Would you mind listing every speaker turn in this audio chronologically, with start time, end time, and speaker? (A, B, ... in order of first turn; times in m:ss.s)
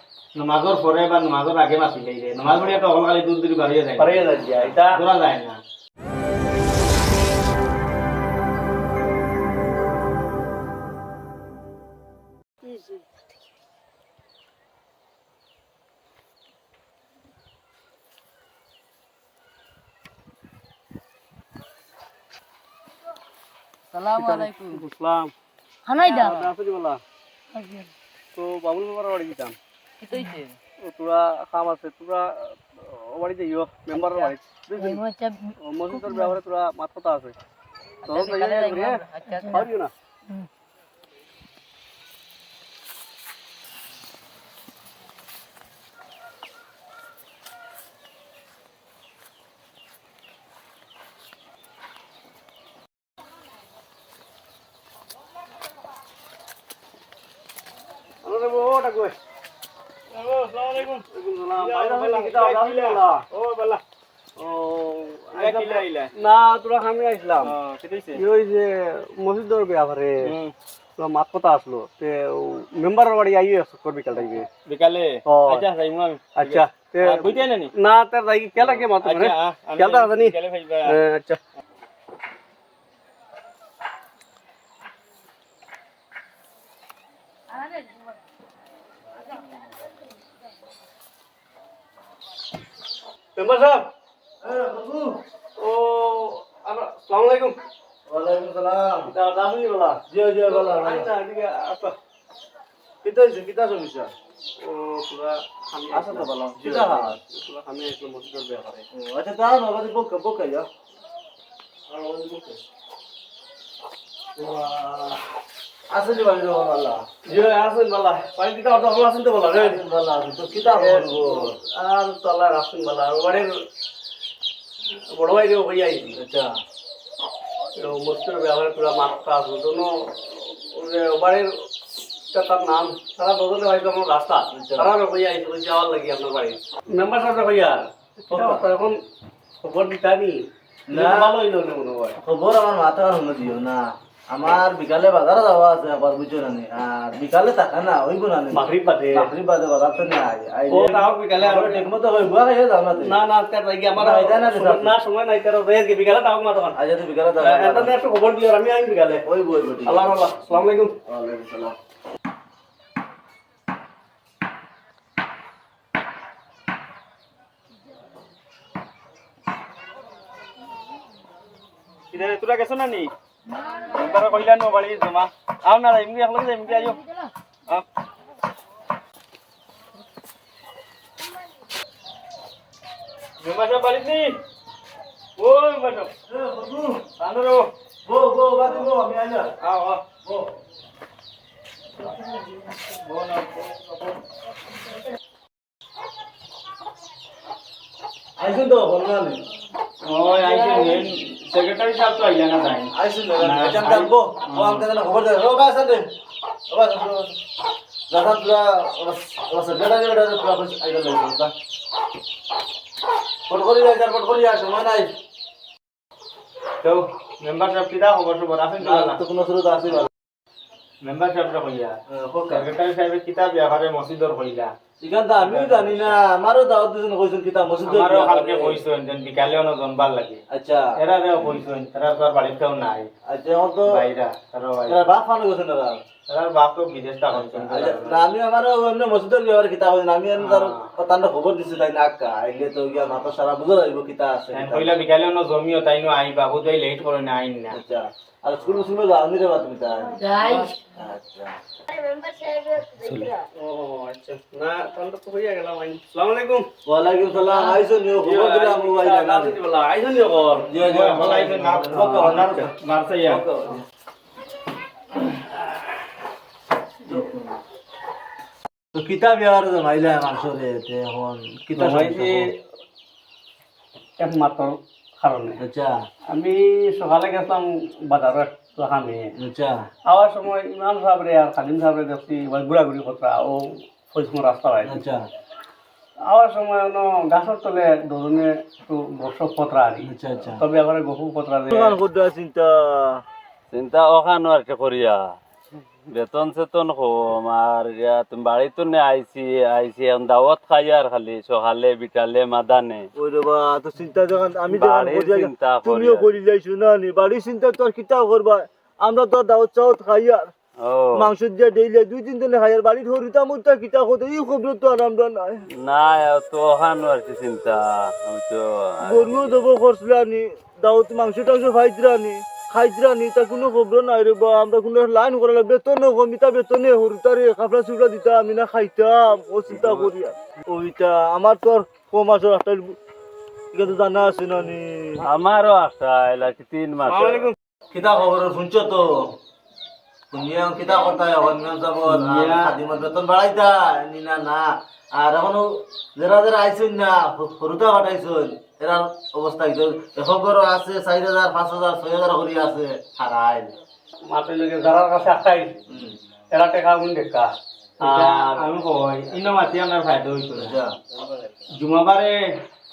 0:00.4-0:05.6 A
0:04.0-0:05.0 B
0:23.9-0:24.8 C
0:24.1-0:25.3 B
0:25.9-0:26.5 C
0:26.0-0:27.0 B
0:27.6-0:27.9 C
0:28.4-0:29.6 B
0:30.0-0:30.6 C
0:30.8-0:35.0 B
0:34.1-0:36.3 C
0:35.6-0:37.4 B
0:38.1-0:39.9 B
0:38.1-0:39.7 C
0:58.2-0:59.2 B
1:00.1-1:01.0 A
1:01.1-1:03.2 B
1:01.6-1:03.8 A
1:04.4-1:07.5 B
1:05.4-1:06.1 A
1:07.4-1:08.2 A
1:08.2-1:10.2 B
1:10.2-1:10.5 A
1:11.0-1:14.5 B
1:14.7-1:17.7 A
1:15.3-1:15.6 B
1:16.4-1:20.4 B
1:18.6-1:21.0 A
1:20.9-1:21.4 B
1:33.4-1:33.9 B
1:34.4-1:35.2 D
1:35.6-1:37.6 B
1:38.1-1:39.1 D
1:39.1-1:42.0 B
1:40.1-1:41.1 D
1:43.0-1:44.1 D
1:44.6-1:48.9 B
1:45.9-1:47.2 D
1:48.9-1:50.7 D
1:52.0-1:52.5 B
1:54.4-1:55.2 B
1:55.9-1:57.0 D
1:57.3-1:59.8 B
1:59.5-2:01.6 D
2:00.6-2:03.5 B
2:05.2-2:06.2 B
2:06.1-2:06.6 D
2:07.8-2:11.5 B
2:12.3-2:19.0 B
2:14.5-2:14.9 D
2:18.3-2:18.6 D
2:19.6-2:22.2 B
2:20.9-2:21.4 D
2:22.2-2:33.2 D
2:28.5-2:29.3 B
2:30.7-2:31.9 B
2:33.0-2:36.8 B
2:34.0-2:34.9 D
2:36.8-2:37.9 D
2:37.4-2:39.3 B
2:39.2-2:40.2 D
2:39.8-2:41.0 B
2:41.1-2:41.8 D
2:52.1-2:53.1 A
2:53.6-2:57.0 A
3:03.4-3:04.4 A
3:05.4-3:06.1 A
3:06.3-3:07.1 D
3:07.2-3:07.7 A
3:08.0-3:09.5 D
3:09.6-3:10.0 A
3:12.8-3:14.1 A
3:18.4-3:19.4 D
3:20.0-3:24.8 A
3:22.9-3:26.1 D
3:26.7-3:27.4 D
3:28.1-3:31.5 D
3:33.5-3:35.1 D
3:36.8-3:39.2 A
3:38.8-3:40.1 D
3:41.0-3:42.0 A
3:42.1-3:42.7 D
3:42.5-3:44.7 A
3:45.0-3:48.8 D
3:45.4-3:46.2 A
3:47.9-3:50.4 A
3:50.5-3:51.6 D
3:51.0-3:53.1 A
3:53.3-3:54.0 D
3:53.9-3:55.1 A
3:54.9-3:56.0 D
3:56.3-3:58.3 A
3:57.3-4:05.0 D
4:00.4-4:00.9 A
4:04.5-4:07.8 A
4:07.7-4:11.6 D
4:10.2-4:10.7 C
4:13.0-4:13.3 E
4:13.4-4:16.7 B
4:16.8-4:19.6 D
4:17.6-4:20.7 B
4:20.6-4:22.7 D
4:20.8-4:23.4 A
4:21.8-4:22.7 B
4:23.3-4:23.8 D
4:27.1-4:27.5 D
4:28.9-4:32.5 D
4:31.8-4:32.6 B
4:34.2-4:35.6 B
4:35.6-4:36.0 D
4:36.3-4:39.3 B
4:39.4-4:39.9 D
4:40.1-4:45.0 B
4:44.8-4:45.2 D
4:46.3-4:52.0 B
4:50.0-4:50.6 D
4:51.7-4:53.2 D
4:53.7-4:55.2 E
4:56.1-5:03.1 E
5:03.2-5:10.5 D
5:04.7-5:06.3 E
5:10.8-5:11.3 E
5:11.1-5:15.6 D
5:15.8-5:19.6 E
5:19.0-5:33.0 D
5:29.8-5:30.1 A
5:33.7-5:35.2 D
5:35.2-5:37.5 E
5:37.2-5:37.4 A
5:37.3-5:39.3 D
5:40.3-5:53.7 D
5:42.1-5:42.8 A
5:54.3-5:55.8 B
5:55.9-5:56.2 D
5:56.5-5:58.7 B
5:58.0-6:00.8 A
6:00.6-6:01.0 D
6:01.7-6:02.6 A